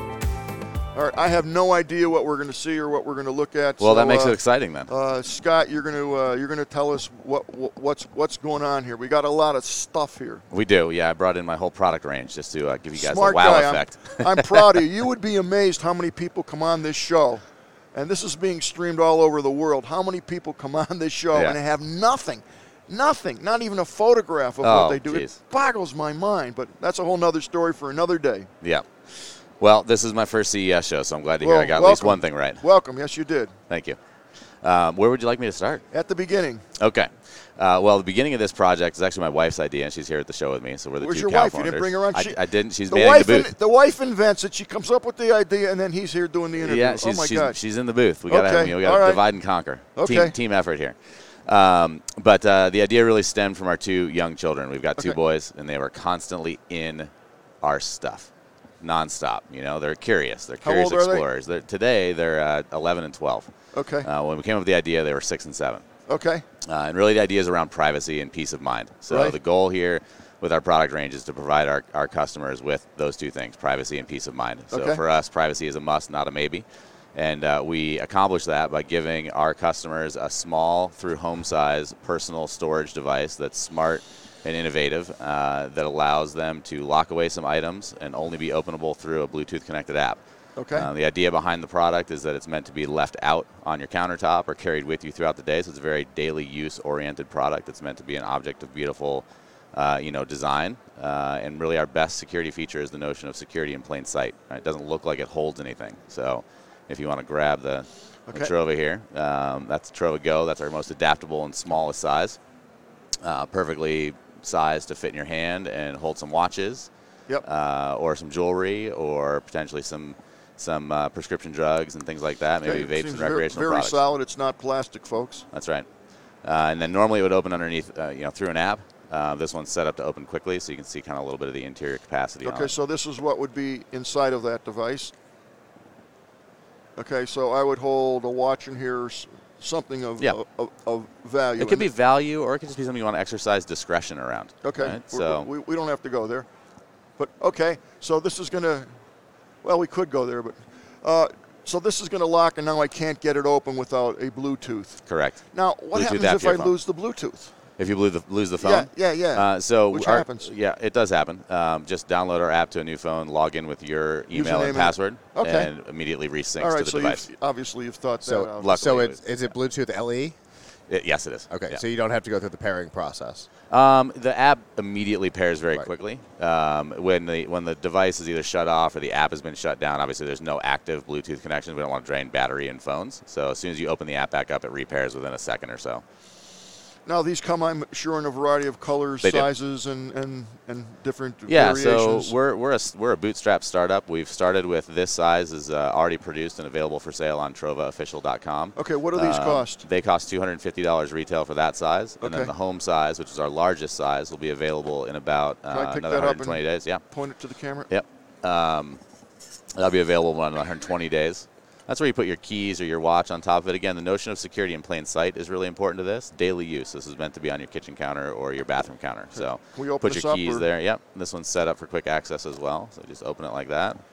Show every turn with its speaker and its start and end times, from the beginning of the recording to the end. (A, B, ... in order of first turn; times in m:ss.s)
0:00.9-0:10.4 A
0:03.8-0:04.9 B
0:10.5-0:14.8 B
0:12.9-0:28.5 A
0:21.3-0:21.6 B
0:24.6-0:25.4 B
0:28.6-0:32.6 B
0:31.4-0:33.5 A
0:33.7-0:34.0 B
0:34.6-0:35.8 B
0:35.9-0:36.6 A
0:36.8-0:43.5 B
0:41.0-0:47.6 A
0:46.6-0:57.1 B
0:48.3-0:49.2 A
0:50.0-0:50.3 A
0:57.6-0:58.3 B
0:58.8-1:03.5 B
1:00.6-1:01.2 A
1:03.7-1:04.1 A
1:04.0-1:05.8 B
1:06.1-1:06.4 A
1:06.6-1:30.2 B
1:09.1-1:09.4 A
1:14.7-1:15.0 A
1:30.6-1:30.9 A
1:30.7-1:52.4 B
1:53.2-1:56.9 B
1:57.4-2:04.0 B
2:02.6-2:05.4 A
2:05.5-2:05.9 B
2:06.4-2:12.7 B
2:12.4-2:15.1 A
2:17.0-2:21.9 A
2:21.6-2:25.5 B
2:24.6-2:26.5 A
2:27.2-2:28.9 A
2:29.6-2:37.5 A
2:35.0-2:35.4 B
2:35.9-2:36.7 B
2:37.8-2:47.2 B
2:38.6-2:40.5 A
2:44.3-2:45.7 A
2:46.6-2:49.0 A
2:48.2-2:50.4 C
2:48.6-2:49.3 B
2:50.9-2:51.8 B
2:51.5-2:53.5 C
2:53.7-3:06.0 B
3:07.0-3:12.3 A
3:09.2-3:09.5 B
3:11.5-3:27.0 B
3:18.8-3:19.8 A
3:22.2-3:22.5 A
3:25.7-3:27.9 A
3:27.9-3:29.0 B
3:29.8-3:44.0 B
3:39.3-3:40.7 A